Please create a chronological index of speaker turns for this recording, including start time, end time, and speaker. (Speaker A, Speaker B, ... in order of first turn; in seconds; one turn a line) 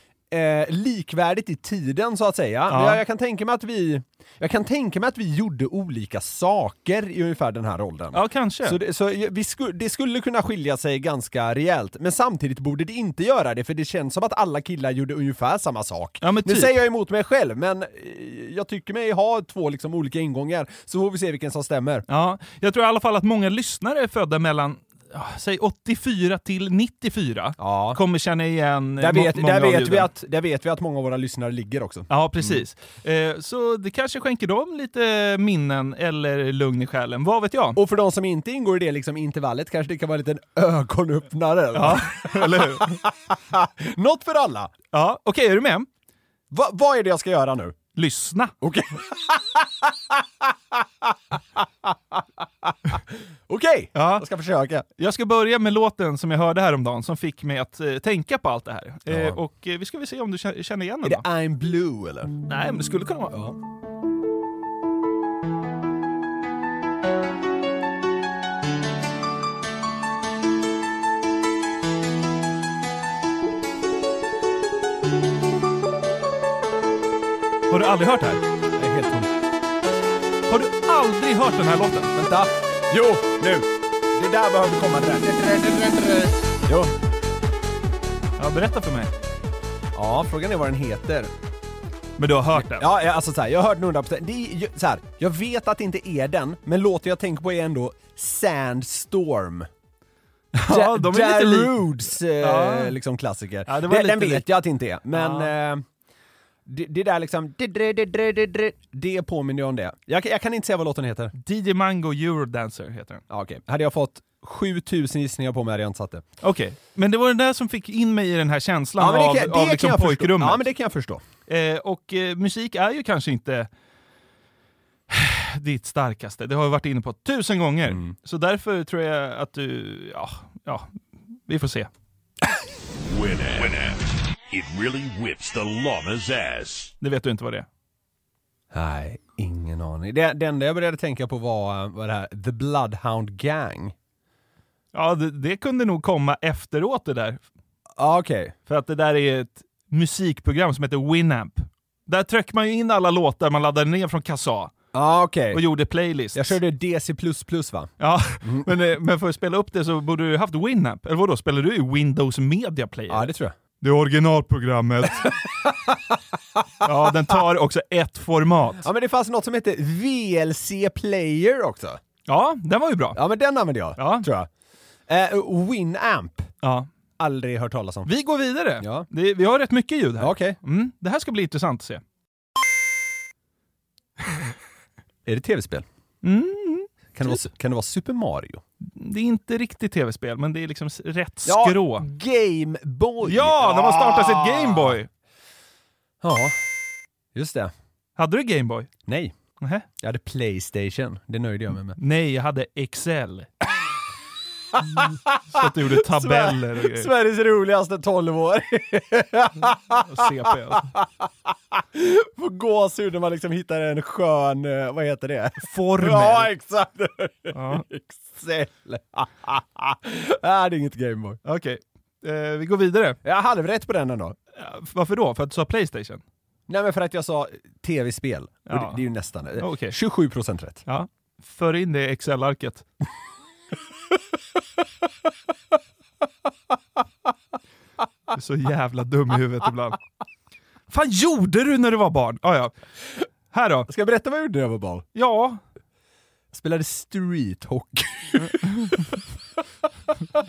Speaker A: 0.3-22.0
Speaker B: 2.7-3.0
Speaker B: 8.1-8.8
Speaker B: 16.2-16.7
Speaker B: 22.1-30.1
Speaker A: 27.6-28.0
Speaker A: 29.0-32.6
Speaker B: 32.1-37.8
Speaker A: 37.8-44.7
Speaker B: 41.7-43.0
Speaker B: 44.9-45.9
Speaker A: 46.5-47.8
Speaker B: 47.9-48.5
Speaker A: 48.6-54.9
Speaker B: 54.0-54.2
Speaker B: 55.0-61.2
Speaker A: 59.1-59.4
Speaker A: 61.0-62.4
Speaker B: 62.5-63.4
Speaker A: 63.3-63.6
Speaker B: 77.7-78.4
Speaker A: 78.8-79.3
Speaker B: 80.5-82.1
Speaker A: 82.1-86.9
Speaker B: 88.4-89.1
Speaker A: 89.9-91.3
Speaker B: 92.2-92.9
Speaker A: 92.5-99.7
Speaker B: 100.5-103.0
Speaker A: 100.7-105.8
Speaker B: 103.7-104.4
Speaker B: 105.1-105.5
Speaker A: 106.7-111.3
Speaker B: 111.4-113.2
Speaker A: 113.3-116.2
Speaker B: 116.4-120.6
Speaker A: 119.0-121.2
Speaker B: 121.5-123.7
Speaker B: 125.1-130.9
Speaker B: 131.5-131.9
Speaker C: 133.1-136.9
Speaker B: 137.0-137.7
Speaker A: 138.7-143.9
Speaker B: 144.9-147.4
Speaker A: 148.0-148.5
Speaker B: 148.7-154.7
Speaker A: 154.9-155.6
Speaker B: 155.5-156.5
Speaker A: 156.3-157.9
Speaker B: 158.0-165.4
Speaker A: 158.4-158.7
Speaker A: 163.1-163.6
Speaker A: 165.6-167.3
Speaker B: 166.8-168.8
Speaker A: 168.8-172.0
Speaker B: 172.3-173.2
Speaker A: 173.1-174.5
Speaker B: 174.0-174.3
Speaker A: 175.1-176.5
Speaker B: 176.6-176.9
Speaker A: 177.2-178.1
Speaker B: 178.1-182.0
Speaker A: 178.8-179.1
Speaker A: 180.2-180.6
Speaker A: 185.2-185.8
Speaker B: 186.2-187.4
Speaker A: 187.1-188.6
Speaker B: 188.9-192.1
Speaker A: 191.4-195.0
Speaker B: 193.2-195.1
Speaker A: 196.2-196.6
Speaker A: 197.3-197.7
Speaker B: 198.2-198.9
Speaker A: 199.1-199.4
Speaker B: 199.6-199.8
Speaker A: 200.0-202.0
Speaker B: 202.0-203.5
Speaker A: 204.8-221.4
Speaker B: 205.0-207.1
Speaker B: 210.0-210.9
Speaker B: 215.7-216.5
Speaker B: 217.5-217.8
Speaker B: 221.4-223.2
Speaker A: 223.2-224.3
Speaker B: 224.5-226.2
Speaker A: 226.7-230.8
Speaker B: 228.7-229.0
Speaker B: 229.6-230.0
Speaker B: 230.9-232.8
Speaker B: 238.3-240.0
Speaker B: 240.9-242.7
Speaker B: 243.5-243.9
Speaker A: 243.9-245.0
Speaker B: 245.1-245.6
Speaker A: 246.5-249.2
Speaker B: 248.6-248.9